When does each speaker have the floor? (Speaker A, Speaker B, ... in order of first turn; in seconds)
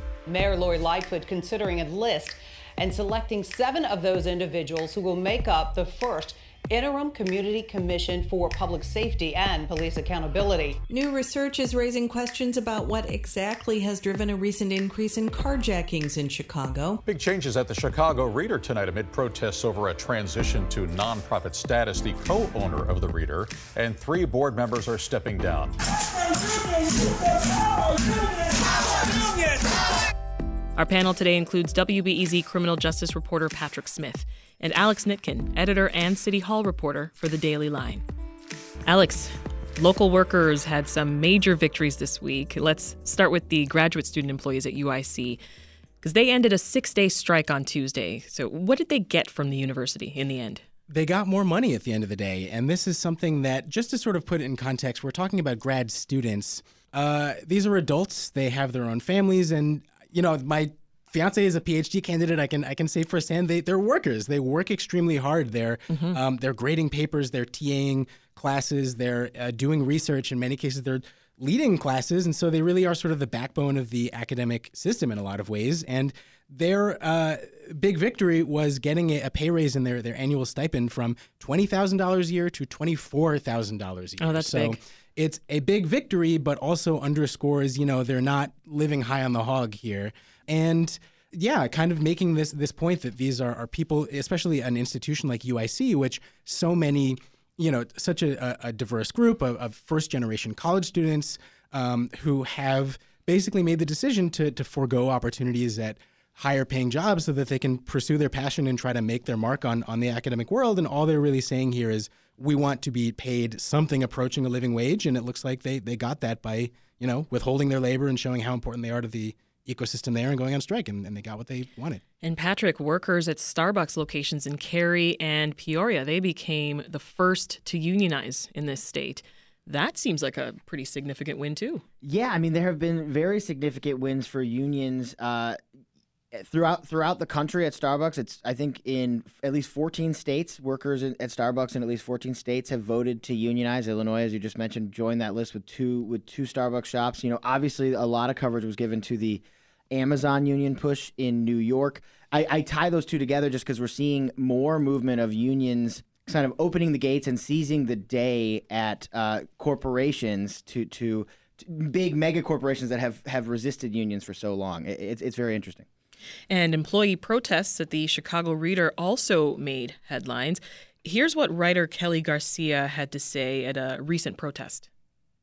Speaker A: 0.3-10.8
Speaker B: 10.9-17.0
Speaker C: 17.1-25.7
Speaker D: 30.8-38.0, 38.9-45.4, 46.0-50.6, 65.9-66.2, 84.2-84.8, 122.2-131.8, 166.5-174.9
Speaker E: 50.9-122.0
Speaker F: 132.0-135.6, 136.3-165.9